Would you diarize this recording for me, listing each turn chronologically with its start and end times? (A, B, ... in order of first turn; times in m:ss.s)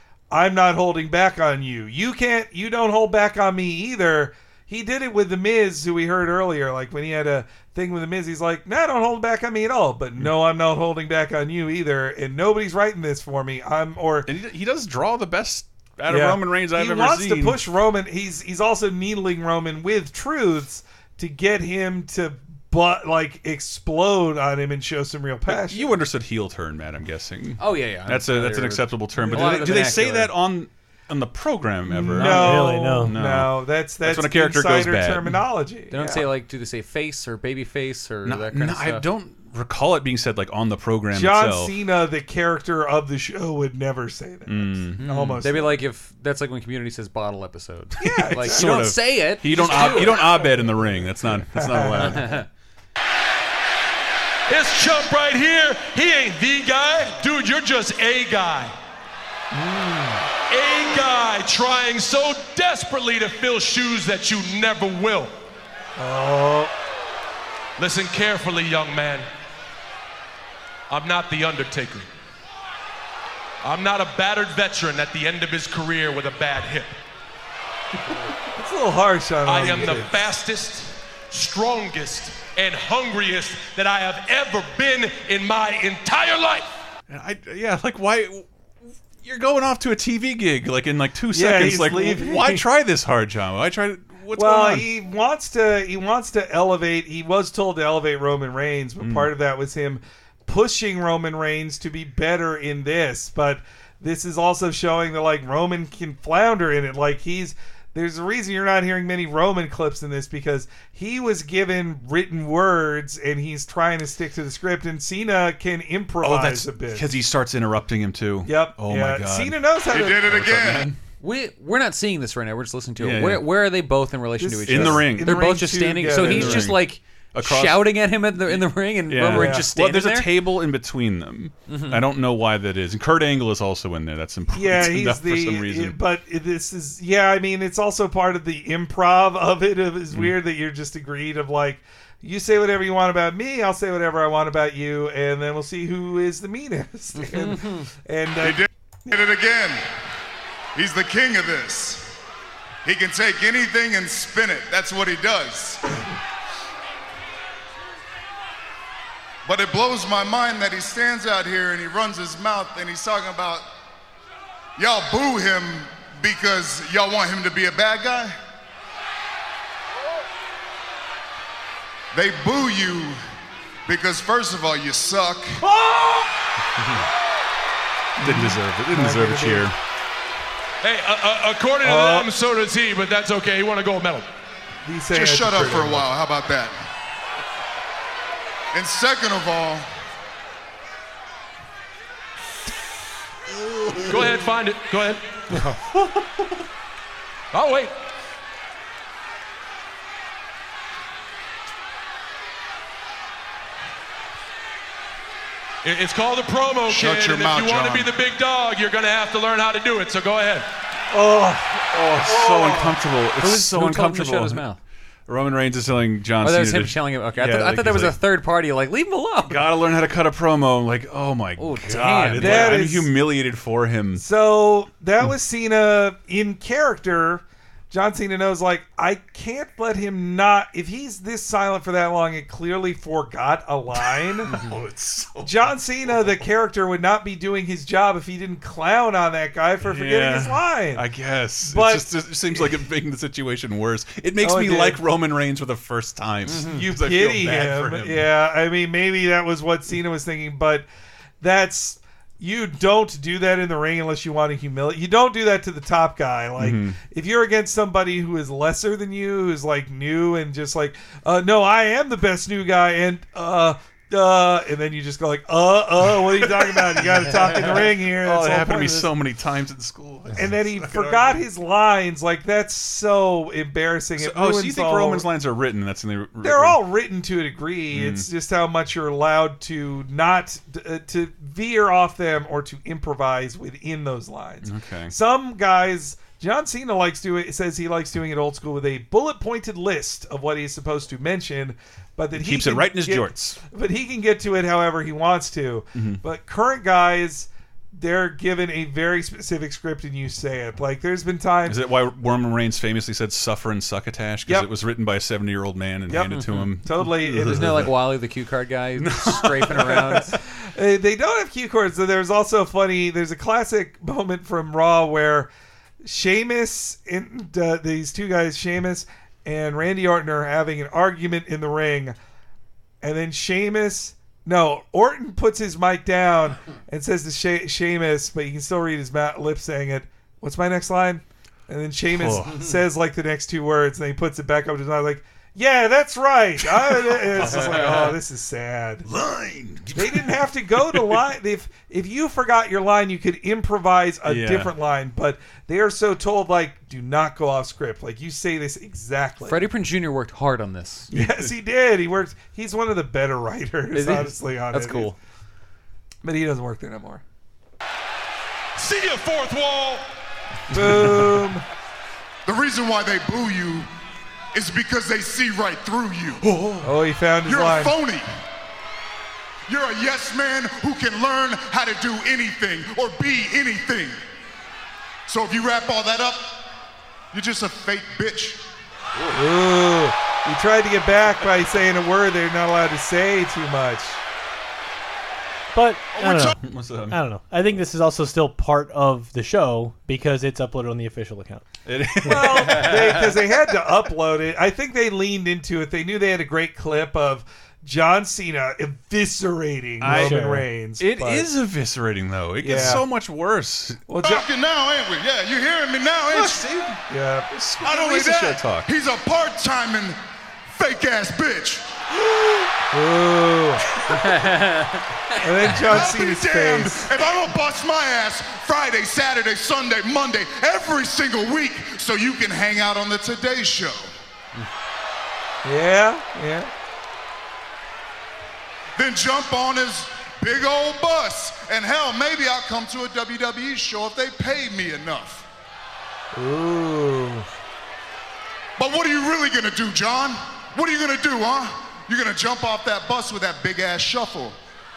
0:00.3-0:14.3 A
0:14.2-0:17.6 B
0:16.1-0:25.9 A
0:25.5-0:35.4 B
0:27.6-0:30.3 C
0:29.2-0:29.7 A
0:31.9-0:36.2 A
0:32.1-0:33.2 D
0:35.9-0:39.0 C
0:38.2-0:41.7 B
0:41.1-0:45.8 A
0:44.5-0:45.4 B
0:45.0-0:50.5 C
0:48.0-0:48.7 A
0:48.0-0:52.4 B
0:49.5-0:50.6 A
0:51.5-0:52.3 A
0:52.0-0:52.5 C
0:54.5-0:58.7 E
0:59.5-1:00.2 A
1:00.5-1:05.3 E
1:06.0-1:06.7 A
1:07.8-1:09.3 E
1:10.9-1:12.1 E
1:13.6-1:17.0 E
1:18.5-1:20.2 A
1:19.4-1:26.7 E
1:27.1-1:28.5 B
1:29.2-1:34.9 B
1:31.3-1:32.6 A
1:34.3-1:57.1 A
1:39.0-1:39.3 B
1:56.2-2:01.0 B
1:58.4-2:00.4 A
1:59.9-2:00.9 F
2:01.2-2:10.3 C
2:03.0-2:03.4 B
2:04.4-2:06.7 A
2:04.6-2:07.8 B
2:08.4-2:16.0 B
2:09.3-2:09.7 A
2:11.7-2:12.0 C
2:14.5-2:29.1 A
2:27.2-2:27.9 C
2:28.4-2:29.8 F
2:30.7-2:32.1 F
2:32.8-2:35.8 F
2:39.4-2:43.6 F
2:44.8-2:48.3 F
2:52.1-2:53.2 F
2:53.8-2:55.6 F
2:55.7-2:56.2 A
2:58.2-2:59.7 A
2:58.2-2:59.7 B
3:00.8-3:04.3 E
3:01.8-3:02.3 A
3:04.8-3:06.1 A
3:05.1-3:06.7 F
3:08.7-3:09.9 F
3:14.1-3:15.4 E
3:17.5-3:17.9 E
3:25.8-3:30.7 E
3:26.8-3:28.2 F
3:31.1-3:33.0 A
3:31.9-3:34.6 B
3:33.4-3:34.8 C
3:35.3-3:38.2 B
3:36.4-3:39.6 C
3:39.5-3:44.2 B
3:41.6-3:42.8 C
3:42.4-3:43.1 A
3:44.2-3:54.5 A
3:54.0-3:55.7 B
3:55.4-4:01.0 A
3:59.8-4:08.3 B
4:01.6-4:02.7 A
4:04.4-4:05.0 A
4:06.5-4:06.8 C
4:06.6-4:10.9 A
4:11.4-4:29.1 A
4:16.6-4:17.0 B
4:27.3-4:31.4 B
4:30.3-4:35.2 A
4:34.2-4:36.8 B
4:36.4-5:01.8 A
4:37.9-4:38.2 B
4:44.6-4:45.1 B
4:52.4-4:53.6 B
4:55.9-4:56.2 B
5:01.6-5:07.9 B
5:06.1-5:07.9 A
5:06.3-5:06.7 C
5:07.4-5:10.3 C
5:09.0-5:10.2 B
5:09.7-5:15.5 A
5:16.0-5:22.2 A
5:23.0-5:39.0 A
5:32.1-5:32.6 B
5:36.6-5:38.2 B
5:37.5-5:38.1 C
5:39.0-5:41.2 B
5:40.0-5:49.6 A
5:44.2-5:44.7 B
5:49.4-5:51.1 C
5:51.1-5:51.4 B
5:51.1-5:55.1 A
5:53.9-5:55.1 C
5:56.2-5:57.2 A
5:58.8-6:00.0 E
6:00.7-6:01.6 A
6:00.8-6:01.3 B
6:02.4-6:03.9 F
6:04.5-6:06.4 F
6:06.4-6:06.9 B
6:06.8-6:07.9 A
6:07.4-6:08.3 F
6:09.7-6:14.2 F
6:15.3-6:16.6 F
6:17.3-6:18.6 F
6:19.3-6:24.2 A
6:25.7-6:26.6 D
6:26.2-6:26.5 F
6:26.6-6:27.2 B
6:27.1-6:32.9 D
6:31.8-6:33.4 B
6:32.2-6:41.5 A
6:40.0-6:44.0 B
6:40.0-6:40.6 D
6:42.6-6:43.0 A
6:44.1-6:44.5 A
6:44.2-6:46.6 F
6:46.3-6:48.9 B
6:47.1-6:47.5 A
6:47.8-6:50.2 F
6:50.7-6:51.9 F
6:52.9-6:53.8 A
6:54.1-6:55.4 C
6:55.4-6:57.1 A
6:55.7-7:04.1 F
7:05.6-7:06.7 A
7:09.0-7:15.4 F
7:16.3-7:17.5 A
7:18.8-7:24.6 F